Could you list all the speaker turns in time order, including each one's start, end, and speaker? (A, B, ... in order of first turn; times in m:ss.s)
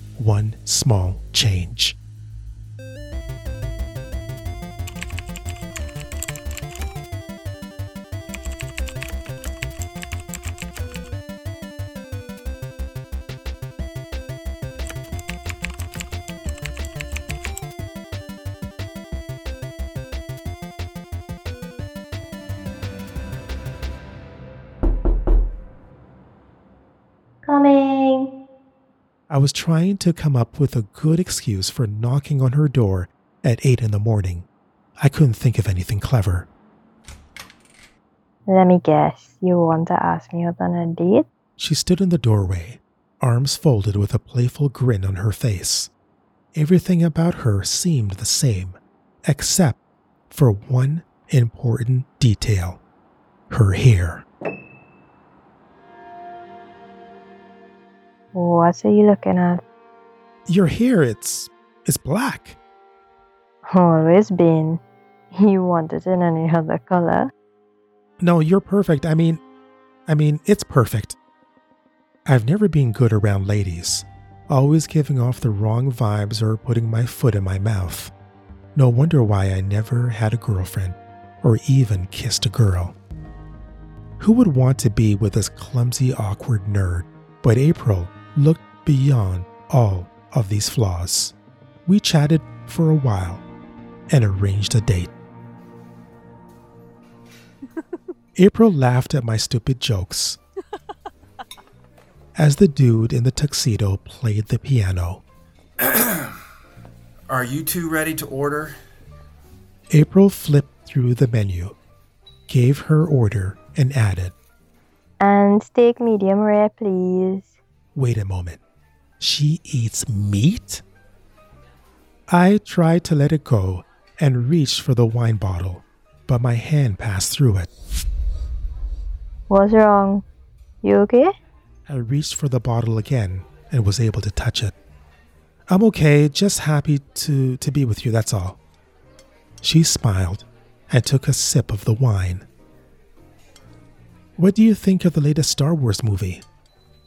0:00.2-0:02.0 A
0:27.4-0:28.3 B
0:29.3-0:34.5 A
0:35.0-0:36.5 A
0:38.5-0:41.3 B
0:41.6-0:45.9 A
0:46.5-0:49.8 A
0:50.3-0:52.8 A
0:53.5-0:54.2 A
0:58.3-0:59.6 B
1:00.4-1:02.6 A
1:03.6-1:04.8 B
1:05.3-1:07.3 B
1:08.2-1:09.4 A
1:10.1-1:11.2 A
1:12.2-1:18.1 A
1:18.7-1:23.0 A
1:24.2-1:33.4 A
1:34.1-1:35.1 A
1:38.3-1:40.4 A
1:42.4-1:45.2 A
1:45.8-1:46.4 C
1:47.3-1:48.8 C
1:49.9-1:51.8 A
1:52.5-1:54.3 A
1:55.2-1:57.5 B
1:57.9-1:58.6 A
1:59.2-2:00.8 A
2:02.3-2:07.7 A
2:09.5-2:10.2 B
2:10.8-2:11.3 B
2:11.9-2:14.7 A
2:15.7-2:18.6 A
2:19.6-2:22.5 A
2:24.4-2:26.4 A